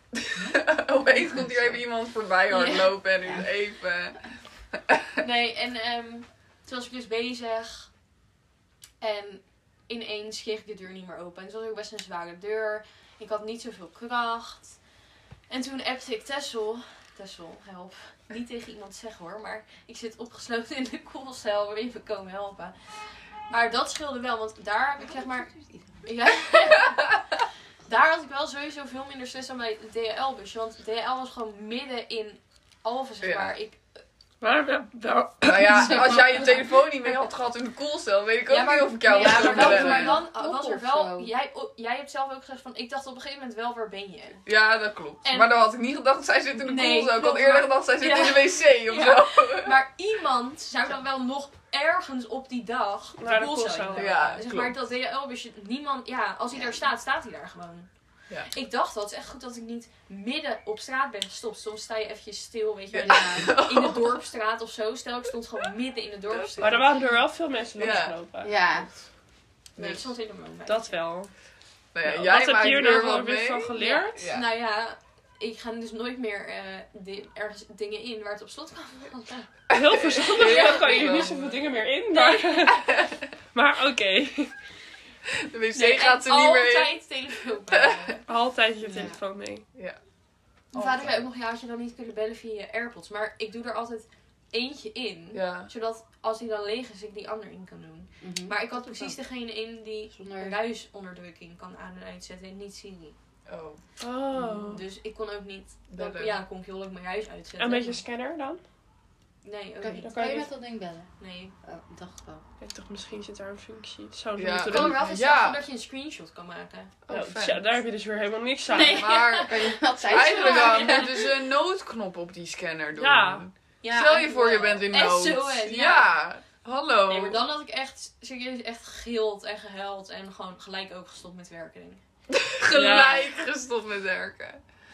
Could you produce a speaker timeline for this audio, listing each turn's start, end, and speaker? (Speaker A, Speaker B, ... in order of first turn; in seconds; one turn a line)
Speaker A: 0.1-5.0
Speaker B: 0.4-0.6
Speaker B: 1.2-1.8
Speaker C: 2.5-3.0
Speaker C: 5.2-7.9
Speaker C: 9.0-14.8
Speaker C: 15.5-25.5
Speaker B: 25.0-26.1
Speaker C: 26.0-27.1
Speaker C: 27.9-33.8
Speaker A: 33.2-33.5
Speaker D: 34.4-36.4
Speaker A: 35.4-40.2
Speaker C: 38.5-44.4
Speaker B: 39.1-41.3
Speaker A: 44.5-49.8
Speaker C: 45.2-45.5
Speaker C: 46.6-57.9
Speaker D: 53.2-54.2
Speaker A: 53.9-54.8
Speaker B: 56.5-56.8
Speaker C: 58.5-66.9
Speaker A: 62.9-64.2
Speaker B: 63.0-63.6
Speaker A: 66.3-66.9
Speaker D: 66.6-68.5
Speaker A: 67.8-68.2
Speaker B: 68.4-68.9
Speaker A: 69.8-70.1
Speaker C: 69.8-70.9
Speaker D: 70.7-71.3
Speaker A: 71.9-74.5
Speaker D: 72.0-74.2
Speaker C: 73.8-79.5
Speaker A: 79.7-81.6
Speaker D: 79.7-83.0
Speaker C: 80.3-81.4
Speaker C: 82.1-82.8
Speaker A: 82.6-83.2
Speaker D: 83.5-84.5
Speaker A: 85.4-87.1
Speaker C: 85.7-88.2
Speaker A: 87.7-88.1
Speaker D: 88.3-89.7
Speaker B: 88.9-89.2
Speaker C: 90.7-103.2
Speaker A: 90.7-91.3
Speaker A: 95.3-95.7
Speaker B: 98.2-99.1
Speaker B: 100.1-100.6
Speaker A: 103.5-103.8
Speaker D: 104.0-104.8
Speaker C: 104.7-108.0
Speaker A: 105.9-106.4
Speaker D: 107.6-108.6
Speaker C: 109.4-110.5
Speaker B: 109.8-111.1
Speaker D: 110.0-110.5
Speaker C: 111.2-111.5
Speaker B: 111.6-112.4
Speaker D: 112.6-115.0
Speaker A: 114.3-115.6
Speaker C: 114.7-116.9
Speaker A: 117.1-117.7
Speaker D: 117.1-119.1
Speaker C: 118.7-121.3
Speaker A: 118.7-127.5
Speaker B: 119.4-121.2
Speaker D: 123.0-123.4
Speaker C: 123.8-126.2
Speaker C: 127.1-132.0
Speaker A: 132.3-134.6
Speaker D: 132.7-133.3